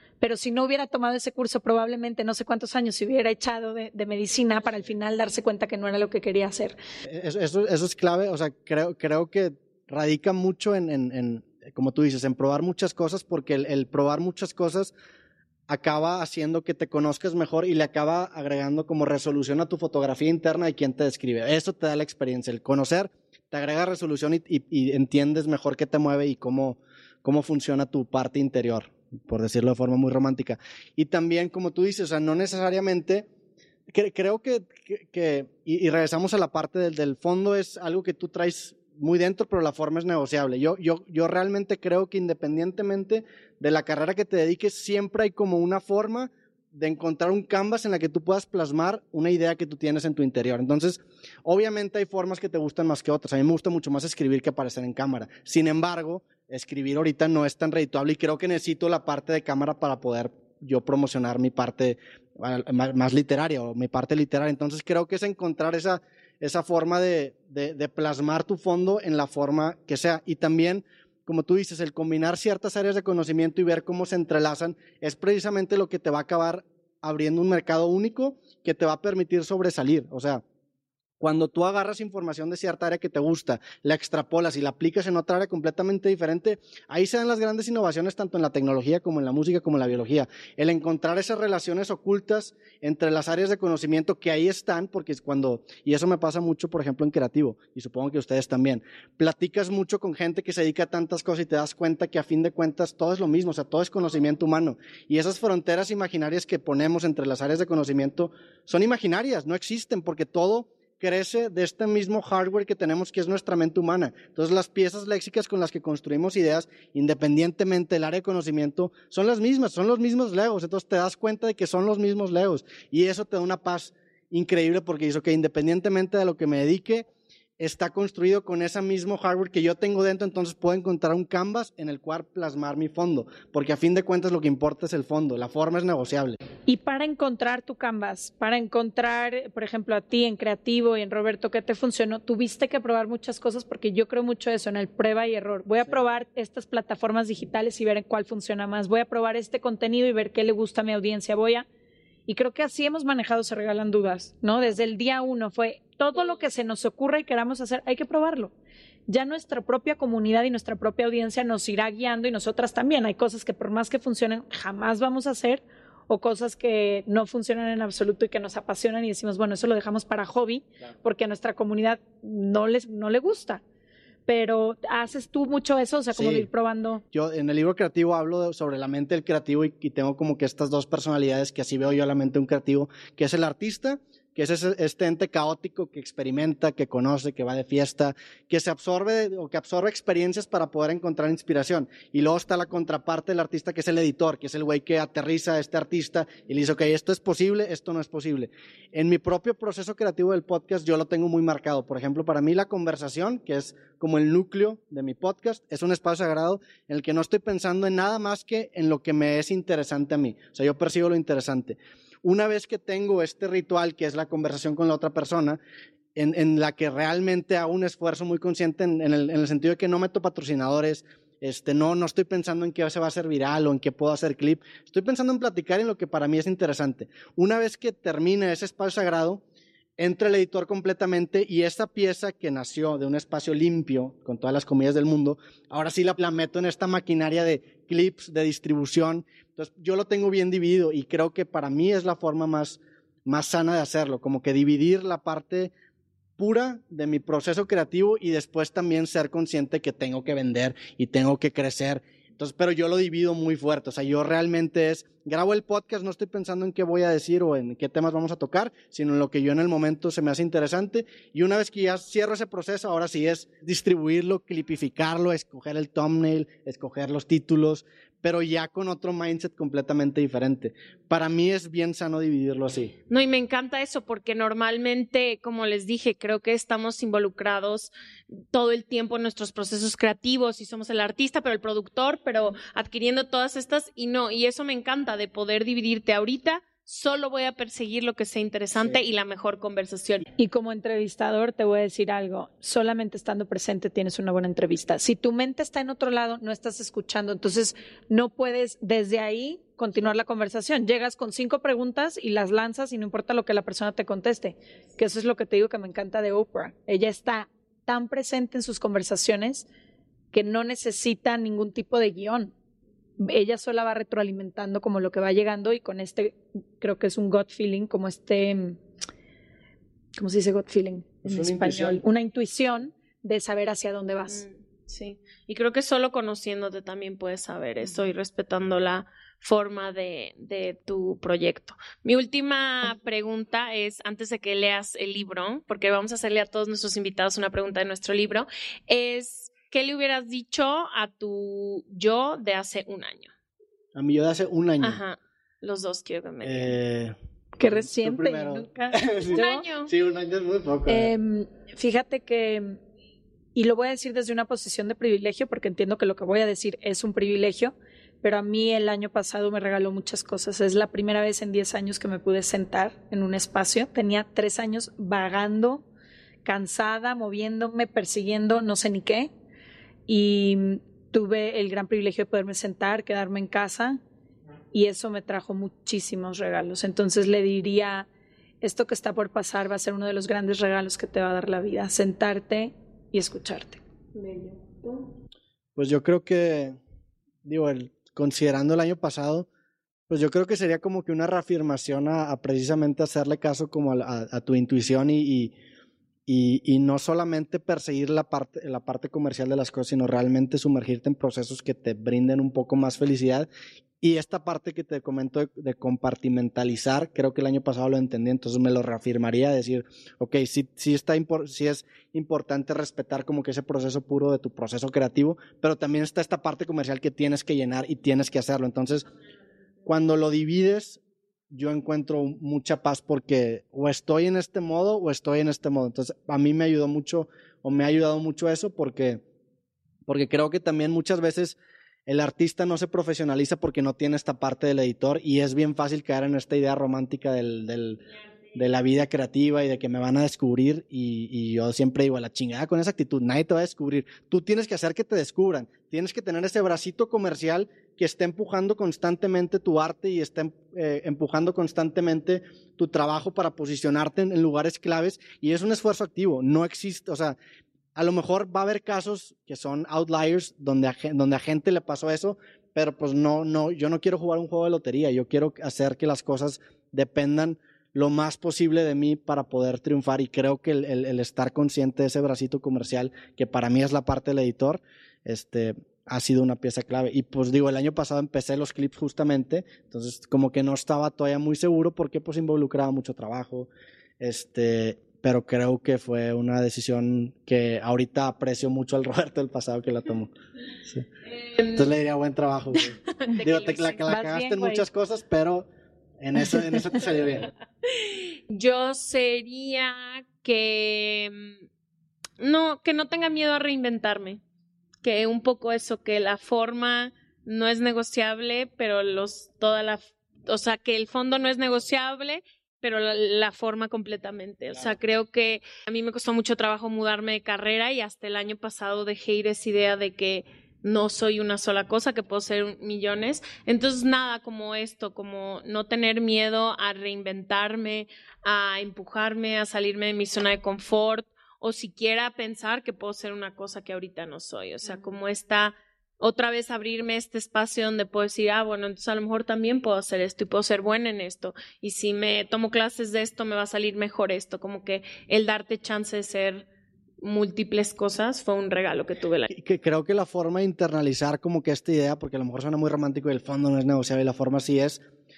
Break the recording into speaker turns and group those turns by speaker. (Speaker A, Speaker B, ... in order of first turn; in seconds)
Speaker A: 0.2-6.8, 136.7-151.7, 152.3-158.5, 159.1-173.6, 174.3-177.0, 290.4-309.7, 310.3-312.5, 313.2-318.8, 320.2-324.4, 347.6-349.7, 350.9-352.8, 353.6-365.9, 366.4-369.3, 370.1-374.0, 374.7-378.1, 378.6-383.8, 494.1-494.9
Speaker B: 7.0-14.9, 15.7-33.3, 33.9-80.4, 81.2-127.1, 127.6-136.4, 176.1-176.5, 177.1-215.6, 216.2-229.4, 230.0-245.7, 246.4-272.9, 321.2-322.0, 343.9-345.0, 346.4-351.1, 385.8-386.8, 387.4-389.5, 390.1-395.5, 396.3-403.5, 404.0-419.1, 419.9-429.2, 430.1-438.0, 438.5-457.4, 457.9-490.3, 491.6-497.5, 549.5-555.0
Speaker C: 273.1-290.2, 324.3-343.3, 344.8-346.8, 349.3-349.9, 491.4-491.8, 493.2-494.1, 498.5-501.6, 502.4-504.4, 505.0-546.7, 547.2-549.5